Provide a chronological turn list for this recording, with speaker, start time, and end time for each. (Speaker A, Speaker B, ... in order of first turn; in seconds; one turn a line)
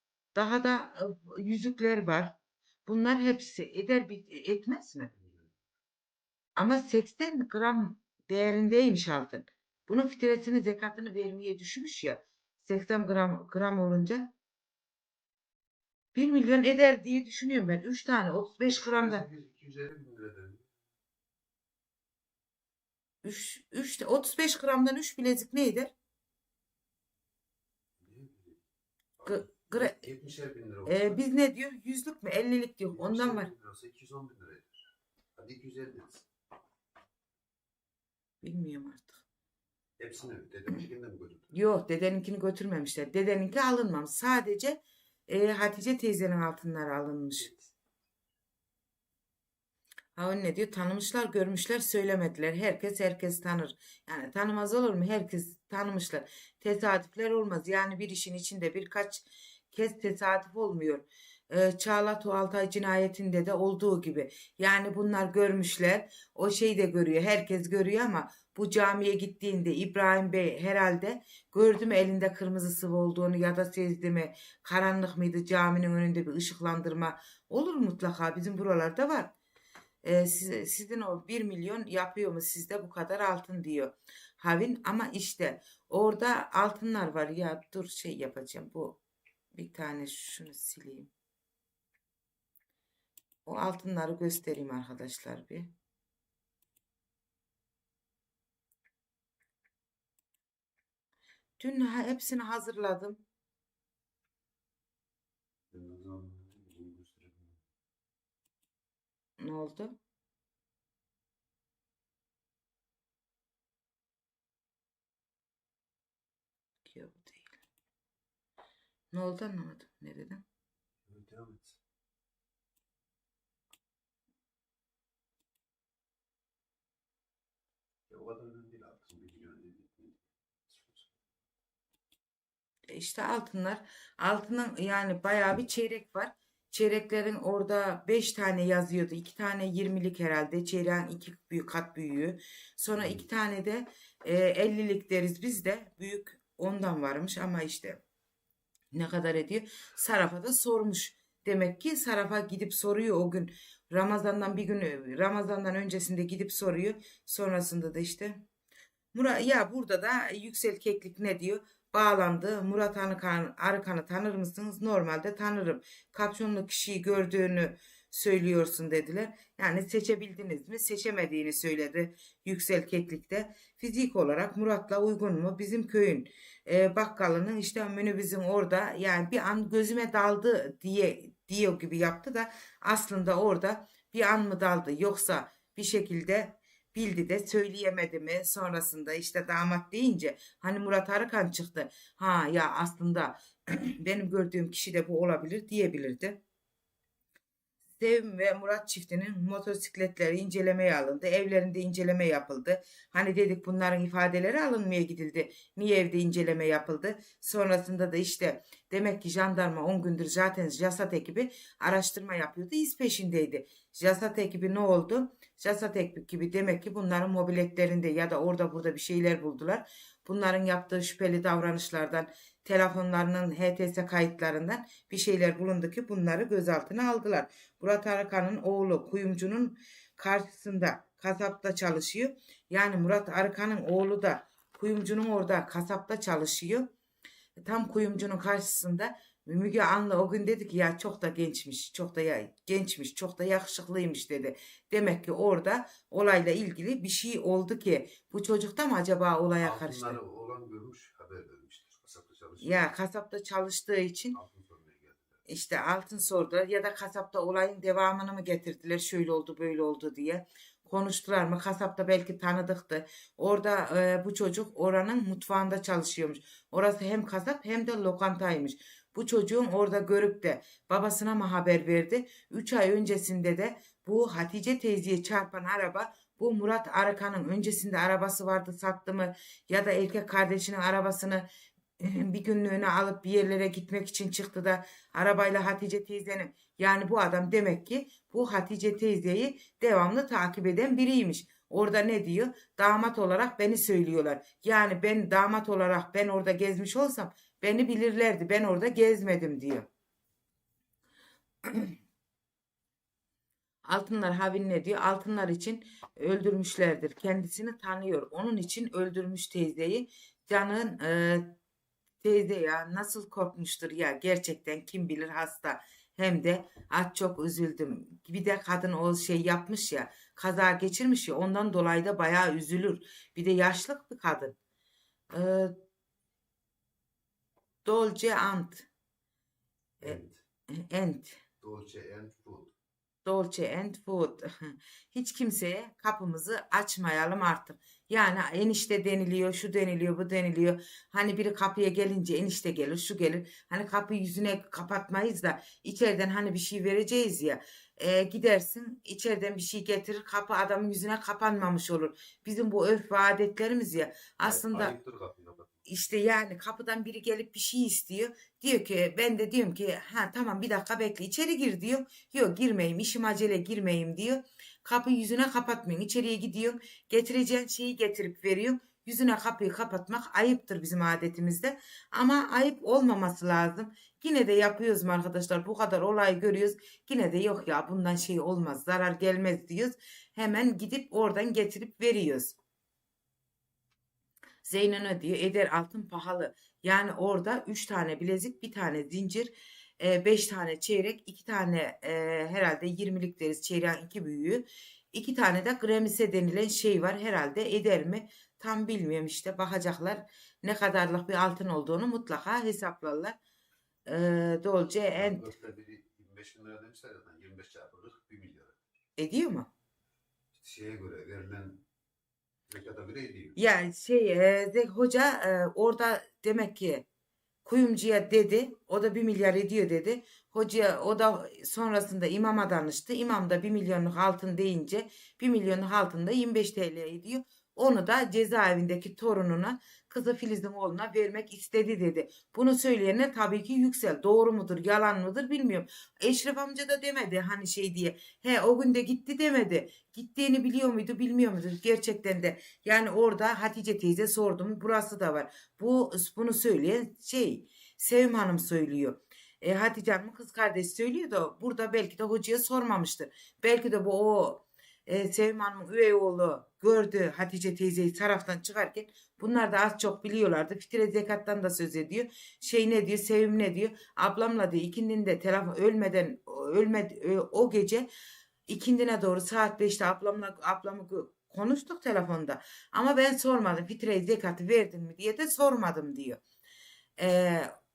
Speaker A: 0.3-5.1
Speaker B: 5.2-5.5
Speaker A: 6.6-14.3
Speaker A: 16.1-19.2
Speaker B: 18.7-20.7
Speaker A: 23.2-25.9
Speaker B: 28.0-28.6
Speaker B: 29.2-31.2
Speaker A: 29.2-30.0
Speaker A: 30.9-33.5
Speaker B: 32.9-36.3
Speaker A: 38.4-39.2
Speaker B: 40.0-41.5
Speaker A: 41.5-47.6
Speaker A: 50.1-79.3
Speaker A: 80.0-89.0
Speaker A: 89.5-91.1
Speaker A: 93.5-95.7
Speaker A: 101.6-103.2
Speaker B: 105.7-107.6
Speaker A: 109.4-110.0
Speaker A: 116.8-117.6
Speaker A: 119.1-120.4
Speaker B: 121.0-121.8
Speaker B: 128.1-131.1
Speaker A: 132.9-148.0
Speaker A: 148.9-158.4
Speaker A: 159.1-196.4
Speaker A: 198.0-236.9
Speaker A: 237.7-250.2
Speaker B: 249.6-252.9
Speaker A: 252.6-254.4
Speaker B: 254.3-255.3
Speaker A: 255.5-281.5
Speaker A: 282.0-299.9
Speaker A: 301.6-301.9
Speaker A: 303.8-311.6
Speaker A: 312.2-324.6
Speaker A: 325.3-325.8
Speaker A: 327.8-328.9
Speaker B: 330.0-330.4
Speaker A: 330.7-331.4
Speaker B: 331.6-332.7
Speaker A: 333.2-354.9
Speaker B: 354.4-355.7
Speaker A: 355.9-382.6
Speaker A: 384.6-403.4
Speaker A: 404.1-405.5
Speaker B: 405.2-408.8
Speaker A: 409.2-409.7
Speaker B: 410.5-411.8
Speaker B: 412.7-413.6
Speaker A: 413.6-417.0
Speaker A: 417.6-468.1
Speaker A: 468.7-476.4
Speaker A: 477.2-477.7